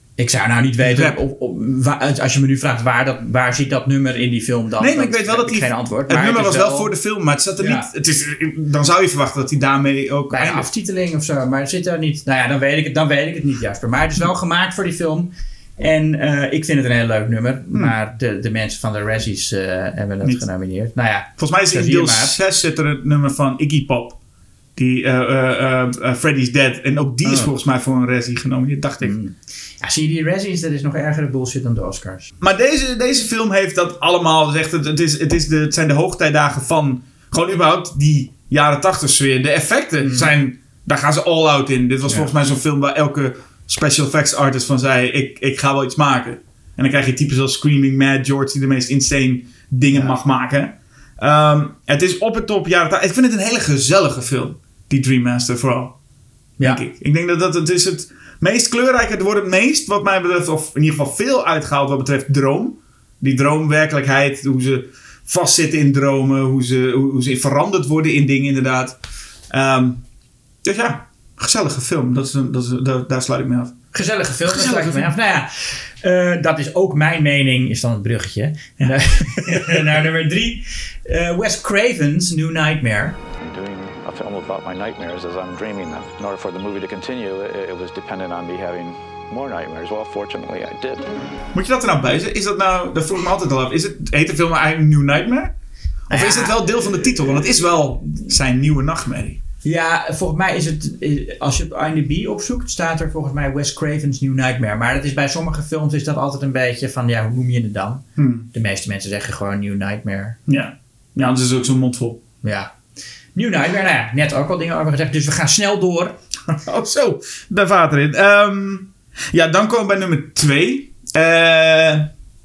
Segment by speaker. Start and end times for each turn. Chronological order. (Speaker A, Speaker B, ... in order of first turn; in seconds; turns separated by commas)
Speaker A: 0.2-6.9, Speaker B: 0.8-1.2, Speaker B: 4.8-10.7, Speaker A: 7.6-7.9, Speaker A: 10.3-22.3, Speaker B: 21.4-24.2, Speaker B: 24.8-29.2, Speaker A: 27.2-27.5, Speaker A: 29.0-32.3, Speaker B: 32.4-56.0, Speaker A: 40.0-40.3, Speaker B: 56.6-69.0, Speaker B: 69.5-70.0, Speaker B: 70.6-73.7, Speaker A: 73.9-83.2, Speaker B: 74.5-75.1, Speaker B: 78.8-80.0, Speaker C: 83.4-91.1, Speaker B: 91.5-95.5, Speaker A: 96.1-97.5, Speaker B: 96.1-99.4, Speaker A: 99.6-110.4, Speaker B: 108.2-108.5, Speaker B: 110.5-112.2, Speaker A: 112.4-112.7, Speaker A: 113.3-116.1, Speaker B: 116.5-122.1